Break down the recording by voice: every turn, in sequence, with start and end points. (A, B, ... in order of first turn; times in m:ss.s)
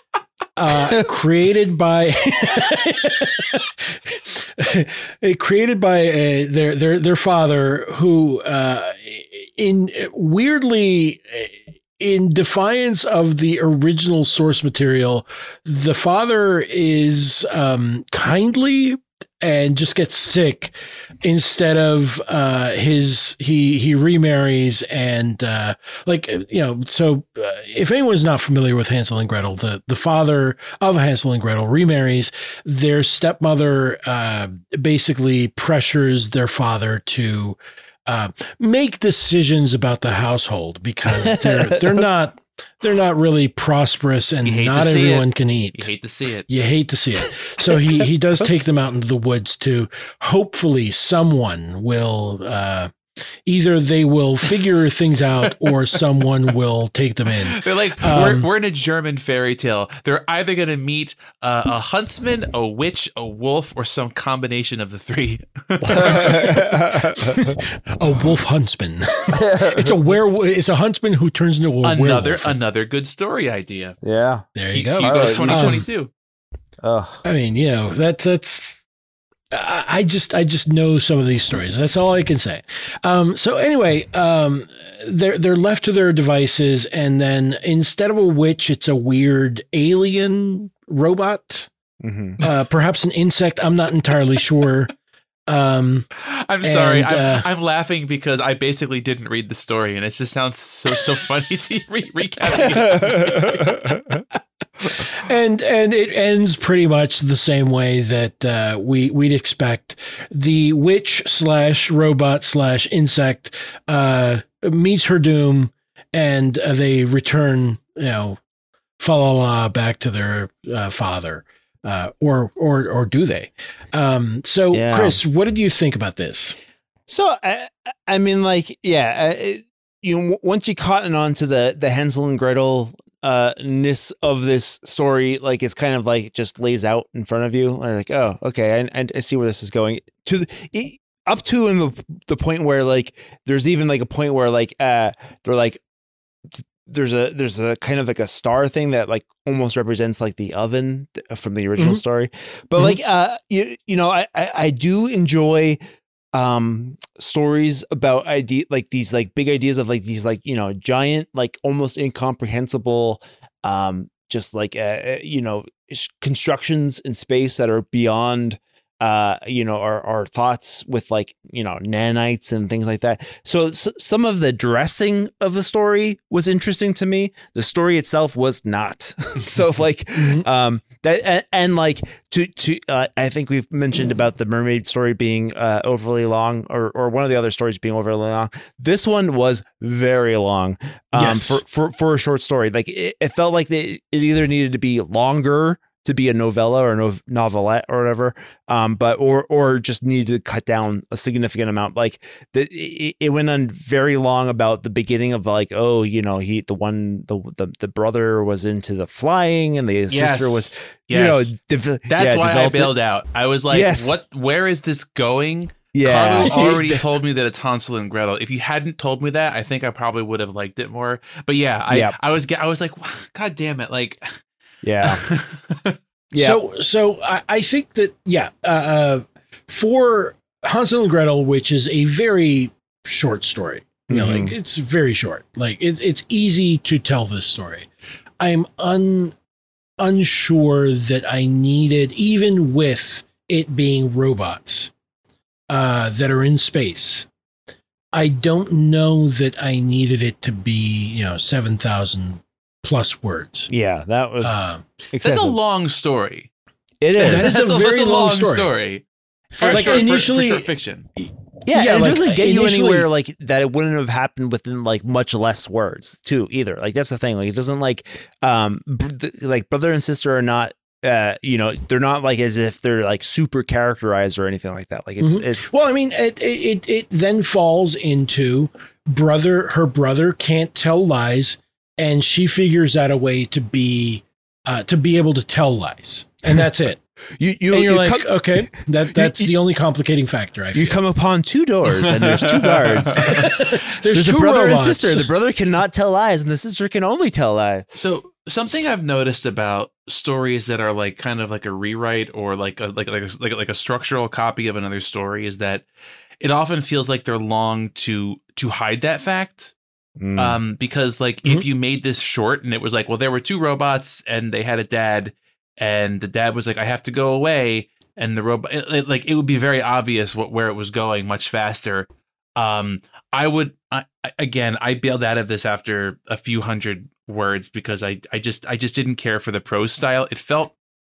0:00.6-0:45.9 A
0:41.2-0:41.8 B
0:44.4-0:46.5 C
0:46.5-0:58.5 A
0:57.5-1:06.6 C
1:06.0-1:07.4 B
1:06.0-1:06.7 A
1:07.6-1:12.6 A
1:09.3-1:10.0 B
1:11.8-1:14.0 C
1:14.0-1:15.9 B
1:14.6-1:15.9 A
1:14.7-1:16.1 C
1:16.8-1:17.2 B
1:17.2-1:18.8 A
1:19.5-1:31.7 A
1:32.0-1:32.4 B
1:32.4-1:34.9 A
1:35.5-1:36.1 A
1:36.2-1:43.7 C
1:36.6-1:37.5 A
1:42.9-1:44.0 B
1:45.0-1:58.4 A
1:59.0-2:06.6 A
2:04.7-2:05.2 B
2:07.1-2:25.8 B
2:26.5-2:35.8 B
2:31.8-2:32.0 A
2:36.4-3:32.9 B
3:00.2-3:00.5 A
3:11.1-3:11.6 A
3:30.1-3:31.6 C
3:32.1-3:44.3 C
3:33.7-3:34.2 B
3:35.9-3:37.0 B
3:41.9-3:42.2 B
3:44.8-3:45.2 B
3:45.0-3:46.0 C
3:46.3-3:46.6 B
3:46.4-3:57.9 A
3:54.1-3:54.5 B
3:58.4-3:59.4 A
4:00.0-4:04.9 A
4:05.7-4:07.3 A
4:08.1-4:13.7 A
4:13.7-4:15.6 B
4:14.4-4:14.8 A
4:15.2-4:16.5 C
4:17.0-4:17.5 B
4:17.2-4:18.7 A
4:17.2-4:19.0 C
4:19.6-4:21.1 C
4:19.6-4:23.1 A
4:19.6-4:20.0 B
4:21.7-4:35.6 B
4:35.2-4:47.0 A
4:47.4-4:49.5 B
4:47.7-4:51.0 A
4:50.7-4:57.9 B
4:52.3-4:53.7 C
4:53.2-4:55.3 A
4:57.9-5:05.8 C
5:06.4-5:09.8 C
5:10.2-5:10.6 B
5:10.4-5:30.7 C